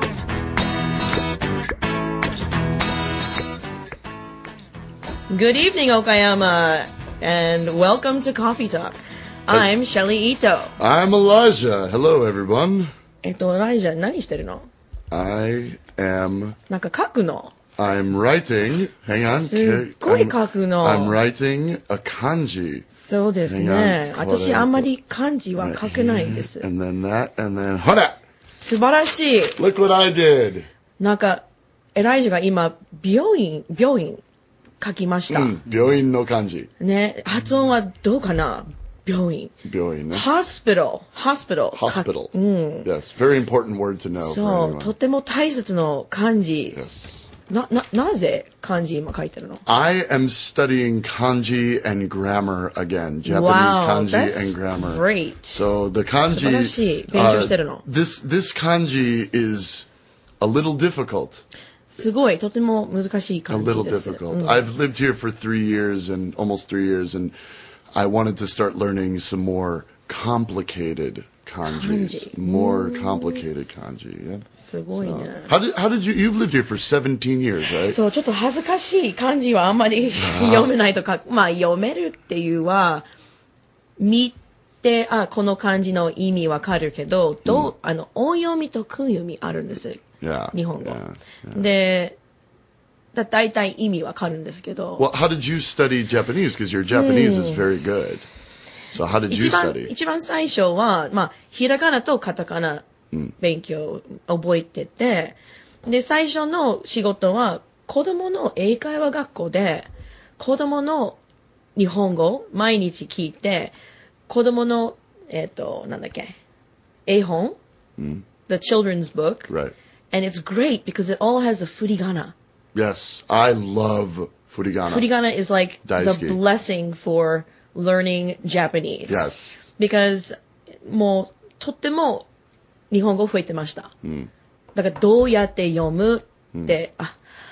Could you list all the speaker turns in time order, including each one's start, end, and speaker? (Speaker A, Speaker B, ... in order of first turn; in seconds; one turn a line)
Speaker A: 5.3-10.8
Speaker B: 10.8-12.9
Speaker A: 13.2-14.7
Speaker B: 15.1-16.6
Speaker A: 16.7-17.5
Speaker B: 17.8-22.9
Speaker A: 19.1-21.2
Speaker A: 22.9-26.6
Speaker B: 23.4-24.9
Speaker B: 25.6-28.2
Speaker A: 28.5-29.6
Speaker B: 29.6-30.7
Speaker A: 31.0-31.4
Speaker A: 31.9-34.2
Speaker A: 34.8-35.5
Speaker B: 35.3-36.7
Speaker A: 36.8-39.5
Speaker B: 39.6-40.2
Speaker A: 40.1-42.9
Speaker B: 41.7-42.3
Speaker B: 42.8-44.9
Speaker A: 44.2-46.8
Speaker B: 46.7-47.3
Speaker A: 47.5-49.6
Speaker B: 49.6-59.9
Speaker A: 53.2-55.6
Speaker A: 56.3-57.8
Speaker B: 60.4-61.4
Speaker A: 61.9-64.6
Speaker B: 63.5-67.3
Speaker B: 67.9-78.0
Speaker A: 71.7-73.4
Speaker A: 74.6-75.5
Speaker A: 77.9-83.0
Speaker B: 80.2-80.7
Speaker A: 84.0-91.0
Speaker B: 87.5-87.7
Speaker B: 90.2-91.7
Speaker A: 91.5-92.2
Speaker A: 93.1-95.0
Speaker B: 95.0-98.2
Speaker A: 96.9-97.6
Speaker B: 98.9-99.9
Speaker A: 99.3-102.8
Speaker A: 103.4-109.9
Speaker A: 110.4-111.2
Speaker A: 111.8-113.7
Speaker A: 114.3-116.4
Speaker A: 117.0-117.6
Speaker B: 118.0-118.2
Speaker A: 118.5-119.5
Speaker B: 119.5-119.7
Speaker A: 120.1-122.3
Speaker B: 122.7-125.1
Speaker A: 124.9-132.3
Speaker B: 125.8-126.4
Speaker B: 129.1-129.6
Speaker A: 132.9-133.9
Speaker B: 134.0-134.3
Speaker A: 134.7-137.2